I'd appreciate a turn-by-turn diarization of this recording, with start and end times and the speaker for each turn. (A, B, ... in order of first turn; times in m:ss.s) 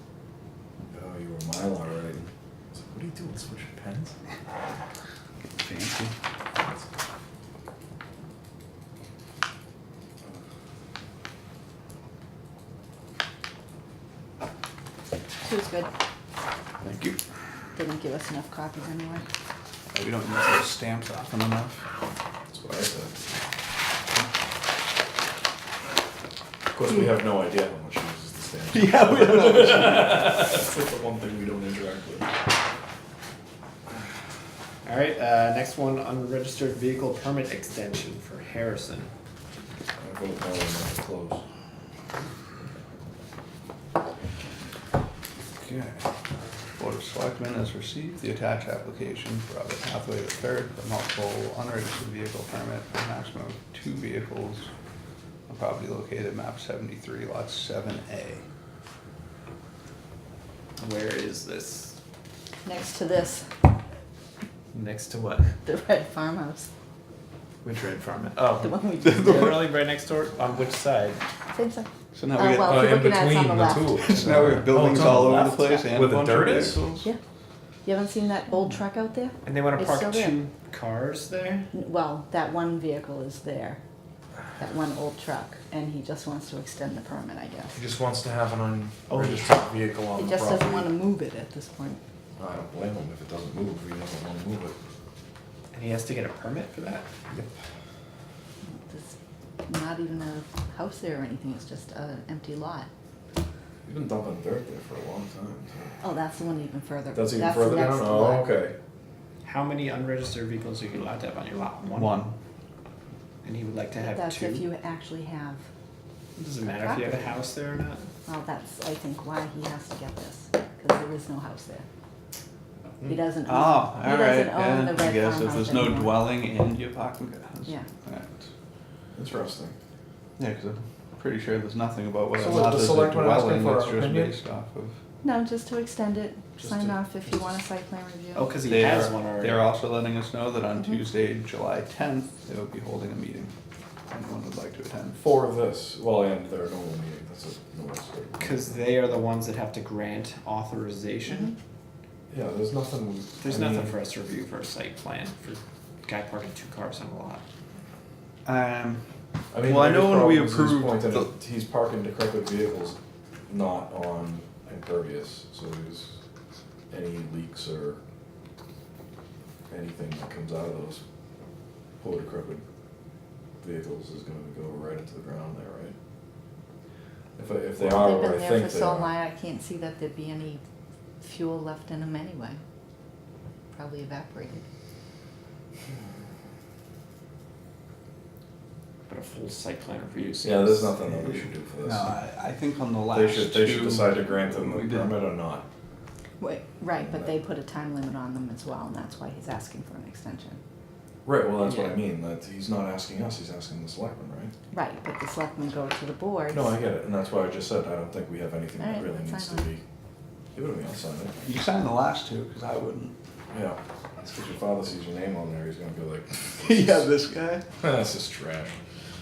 0:00.9-0:04.2 A
0:05.6-0:06.1 B
0:15.4-0:15.9 C
0:16.8-0:17.2 B
0:17.7-0:19.3 C
0:19.9-0:21.8 B
0:22.5-0:23.2 A
0:26.7-0:32.3 A
0:28.7-0:30.6 B
0:34.8-0:39.1 D
0:40.0-0:41.4 A
0:45.6-0:46.0 B
0:46.8-0:54.7 B
0:55.5-0:58.4 B
1:00.8-1:02.0 D
1:02.6-1:03.5 C
1:04.7-1:05.5 D
1:05.6-1:06.7 C
1:07.6-1:11.2 D
1:08.6-1:09.5 C
1:09.0-1:09.7 B
1:11.5-1:15.9 C
1:12.1-1:12.9 B
1:12.6-1:17.1 A
1:13.8-1:16.8 B
1:17.8-1:20.4 C
1:19.4-1:21.7 D
1:21.7-1:23.8 C
1:24.6-1:27.8 C
1:27.7-1:30.9 A
1:29.1-1:29.6 D
1:30.2-1:32.0 C
1:32.4-1:34.7 A
1:35.7-1:37.1 D
1:38.6-1:39.1 C
1:39.6-1:42.9 C
1:43.8-1:45.9 A
1:46.0-1:48.6 C
1:47.1-1:48.8 A
1:49.4-1:52.2 D
1:51.8-1:52.3 B
1:53.4-1:54.6 D
1:54.1-1:55.6 C
1:56.4-1:58.1 D
1:56.6-1:57.4 C
1:58.2-2:01.8 C
2:03.0-2:06.3 C
2:03.4-2:08.4 B
2:09.1-2:09.7 A
2:10.4-2:15.0 B
2:12.3-2:14.3 A
2:15.2-2:18.5 C
2:16.6-2:17.4 A
2:18.3-2:19.6 D
2:18.6-2:23.5 B
2:24.1-2:25.2 B
2:25.2-2:28.9 A
2:28.4-2:31.5 D
2:32.3-2:33.9 A
2:33.4-2:37.4 D
2:38.4-2:39.0 B
2:39.5-2:46.2 A
2:39.6-2:41.3 B
2:46.9-2:48.0 A
2:49.7-2:51.0 A
2:52.0-2:52.6 A
2:53.6-2:55.9 A
2:57.4-2:59.1 A
2:57.8-3:00.6 C
3:01.2-3:02.6 C
3:03.7-3:04.6 C
3:09.1-3:11.4 D
3:10.4-3:12.2 A
3:11.8-3:15.2 B
3:13.1-3:15.6 A
3:16.4-3:20.6 C
3:17.0-3:17.3 A
3:21.2-3:24.5 A
3:21.6-3:22.0 D
3:24.7-3:26.8 C
3:26.5-3:29.8 A
3:28.8-3:29.7 C
3:30.5-3:31.3 A
3:31.4-3:33.1 B
3:33.5-3:37.0 A
3:36.4-3:37.6 B
3:37.8-3:38.8 A